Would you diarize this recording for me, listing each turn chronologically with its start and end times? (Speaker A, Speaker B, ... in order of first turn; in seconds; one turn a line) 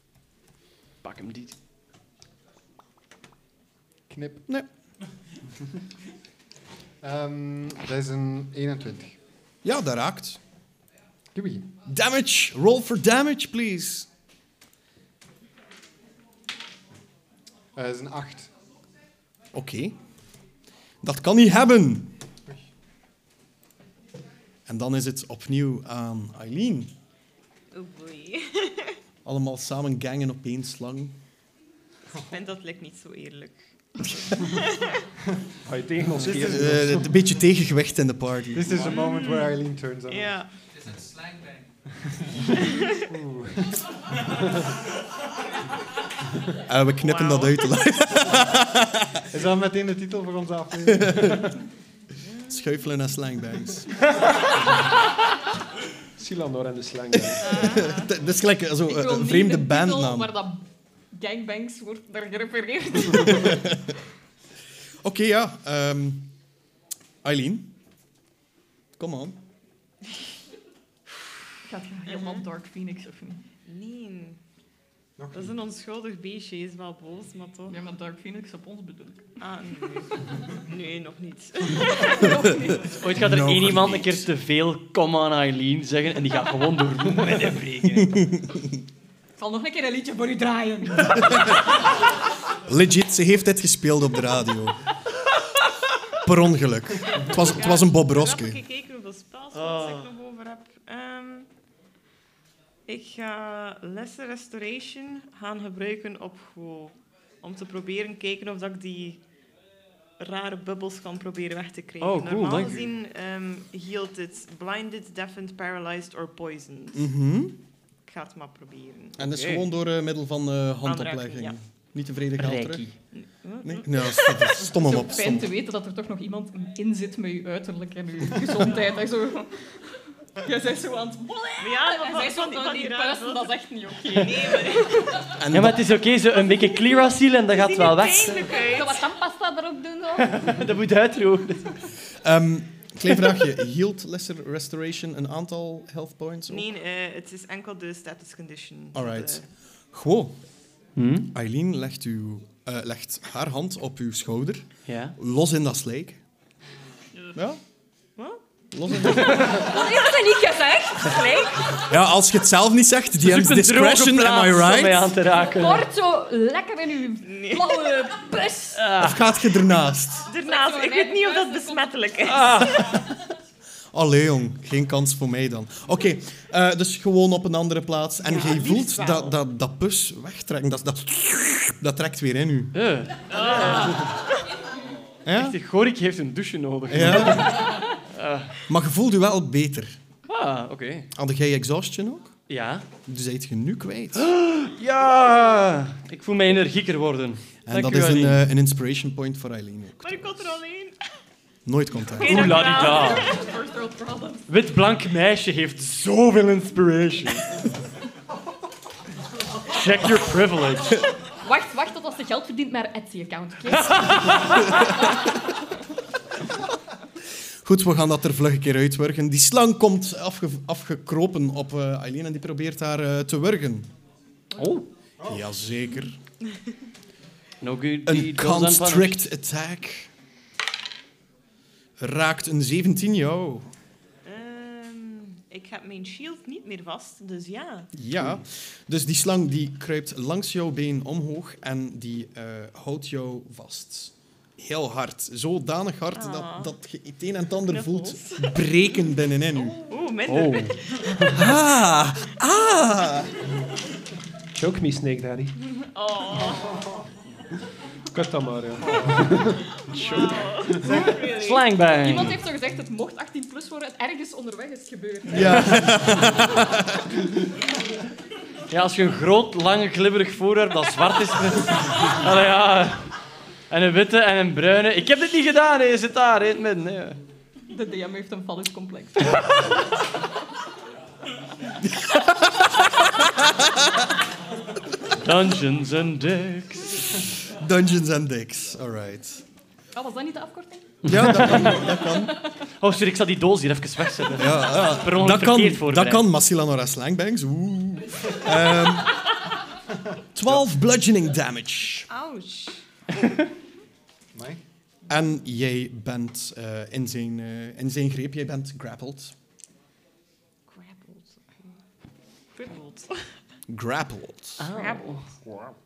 Speaker A: 1.0-1.6
Speaker B: 4.1-4.5
Speaker B: 7.0-9.2
Speaker C: 9.6-10.4
Speaker B: 11.3-11.7
Speaker C: 11.8-14.1
Speaker B: 17.8-18.5
Speaker C: 19.5-20.0
Speaker C: 21.0-22.2
Speaker C: 24.7-26.9
Speaker D: 27.7-29.0
Speaker C: 29.2-31.2
Speaker D: 32.2-35.0
Speaker E: 35.7-37.1
Speaker B: 36.2-36.6
Speaker C: 36.2-38.8
Speaker B: 38.5-40.4
Speaker D: 38.8-39.6
Speaker D: 40.1-40.5
Speaker B: 43.1-44.3
Speaker C: 46.7-49.3
Speaker D: 47.2-47.5
Speaker B: 49.3-51.5
Speaker C: 50.9-51.5
Speaker C: 52.5-54.0
Speaker E: 56.2-57.6
Speaker F: 57.4-58.1
Speaker C: 57.5-60.4
Speaker D: 57.6-57.9
Speaker F: 58.9-63.7
Speaker C: 63.2-63.9
Speaker C: 65.0-66.3
Speaker C: 67.2-67.8
Speaker C: 69.0-69.4
Speaker F: 71.7-73.4
Speaker D: 72.1-72.4
Speaker D: 73.7-74.4
Speaker B: 75.2-75.5
Speaker D: 75.3-77.8
Speaker F: 77.7-79.3
Speaker D: 79.4-82.3
Speaker F: 81.7-82.9
Speaker C: 82.4-84.3
Speaker A: 82.8-88.3
Speaker C: 88.0-88.8
Speaker F: 89.4-91.6
Speaker C: 92.6-94.8
Speaker C: 96.2-98.6
Speaker D: 97.3-101.5
Speaker A: 99.5-100.1
Speaker D: 102.9-109.2
Speaker D: 110.2-117.1
Speaker A: 112.0-112.9
Speaker C: 117.0-117.6
Speaker D: 118.1-119.2
Speaker C: 119.2-122.9
Speaker D: 120.8-121.6
Speaker A: 122.4-123.0
Speaker D: 123.1-124.9
Speaker C: 123.6-125.5
Speaker F: 124.8-129.8
Speaker F: 130.4-135.3
Speaker D: 131.6-135.3
Speaker C: 135.4-135.8
Speaker A: 135.5-138.5
Speaker D: 137.5-139.1
Speaker F: 138.5-140.5
Speaker A: 140.2-141.8
Speaker C: 142.2-146.7
Speaker D: 146.5-149.5
Speaker C: 148.9-150.4
Speaker A: 151.0-151.3
Speaker C: 151.3-156.2
Speaker A: 154.9-155.2
Speaker C: 157.3-157.6
Speaker D: 158.2-158.4
Speaker C: 158.7-159.7
Speaker A: 159.1-159.6
Speaker F: 159.5-161.3
Speaker D: 161.0-161.8
Speaker C: 161.8-165.1
Speaker A: 163.2-165.9
Speaker F: 165.5-168.8
Speaker D: 167.2-168.1
Speaker A: 168.8-169.3
Speaker C: 169.0-170.3
Speaker D: 170.2-172.7
Speaker F: 170.4-171.9
Speaker A: 172.3-173.0
Speaker C: 172.8-173.0
Speaker C: 173.9-182.8
Speaker D: 178.2-179.4
Speaker A: 182.7-184.1
Speaker D: 183.3-184.2
Speaker C: 185.3-185.6
Speaker A: 185.3-188.6
Speaker C: 186.9-187.8
Speaker C: 188.7-190.0
Speaker A: 190.3-191.1
Speaker C: 191.1-192.3
Speaker A: 192.5-192.9
Speaker C: 193.1-194.3
Speaker A: 194.2-198.4
Speaker C: 197.7-200.6
Speaker D: 200.0-201.0
Speaker C: 201.7-202.7
Speaker D: 202.1-203.4
Speaker A: 202.2-203.3
Speaker F: 202.3-204.5
Speaker A: 204.5-207.6
Speaker A: 209.7-211.0
Speaker F: 211.4-214.9
Speaker A: 213.8-214.7
Speaker C: 214.5-215.2
Speaker C: 217.6-223.9
Speaker B: 225.2-225.5
Speaker C: 225.3-226.2
Speaker A: 227.6-229.3
Speaker C: 228.1-230.1
Speaker C: 232.0-233.7
Speaker D: 234.2-237.9
Speaker C: 237.9-249.8
Speaker D: 246.1-246.7
Speaker D: 247.7-248.6
Speaker D: 249.8-251.5
Speaker A: 250.3-250.8
Speaker C: 251.3-253.4
Speaker E: 254.5-255.5
Speaker D: 255.8-257.0
Speaker E: 258.1-259.7
Speaker D: 259.9-261.6
Speaker A: 260.9-262.4
Speaker F: 262.0-265.9
Speaker C: 265.3-267.1
Speaker A: 265.4-266.5
Speaker A: 268.7-273.1
Speaker A: 273.7-277.2
Speaker F: 277.7-279.6
Speaker C: 281.8-283.9
Speaker A: 285.1-287.3
Speaker C: 287.5-289.4
Speaker F: 289.9-290.9
Speaker A: 291.0-291.9
Speaker C: 291.1-292.4
Speaker F: 291.9-292.4
Speaker A: 292.8-296.2
Speaker C: 294.4-299.3
Speaker C: 300.4-302.1
Speaker D: 302.1-302.8
Speaker B: 304.4-304.6
Speaker C: 305.1-309.4
Speaker D: 310.7-311.8
Speaker D: 312.6-313.4
Speaker C: 313.7-314.7
Speaker A: 314.6-315.3
Speaker D: 314.7-315.2